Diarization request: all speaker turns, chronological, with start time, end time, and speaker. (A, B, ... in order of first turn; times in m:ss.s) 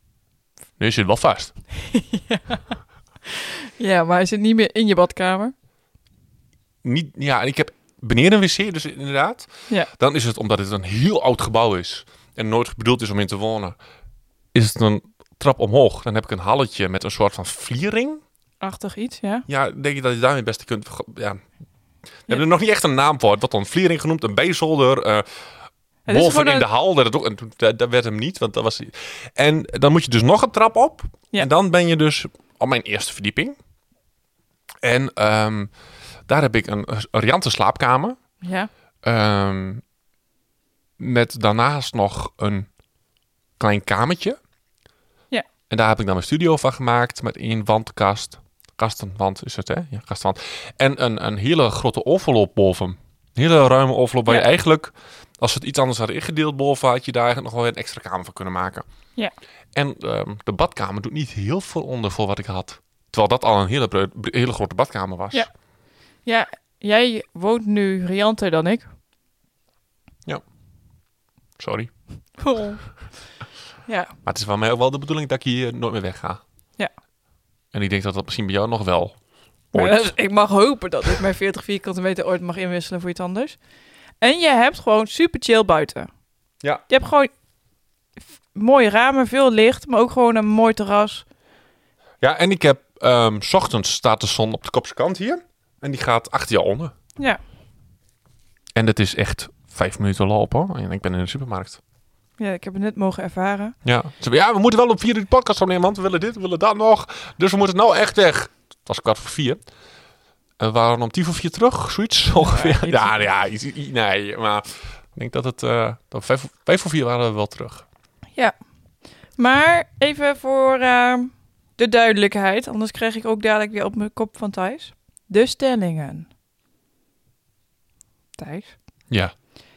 0:00.8-0:01.5 A
0:01.7-0:05.5 B
0:06.8-0:13.8 A
0:14.5-0:18.2 A
0:18.6-0:19.4 B
0:19.5-0:21.4 A
0:22.3-0:25.2 A
0:26.0-0:26.7 B
0:26.1-0:33.6 A
0:34.8-0:35.7 A
0:36.3-0:38.2 A
0:38.4-0:38.7 B
0:39.0-0:39.8 A
0:41.0-0:42.7 A
0:43.6-0:44.4 A
0:45.7-0:58.8 A
0:59.7-1:05.5 A
1:06.2-1:08.9 B
1:11.6-1:11.9 A
1:12.4-1:12.8 B
1:13.8-1:14.1 B
1:14.2-1:16.4 A
1:17.7-1:19.2 A
1:19.7-1:20.1 A
1:19.7-1:23.6 B
1:24.2-1:26.1 B
1:26.9-1:27.3 B
1:28.5-1:31.2 B
1:32.2-1:36.9 A
1:38.8-1:41.8 A
1:42.4-1:43.8 B
1:43.8-1:49.6 A
1:50.6-1:57.8 A
1:52.4-1:53.2 B
1:59.4-2:06.3 B
2:08.4-2:08.7 B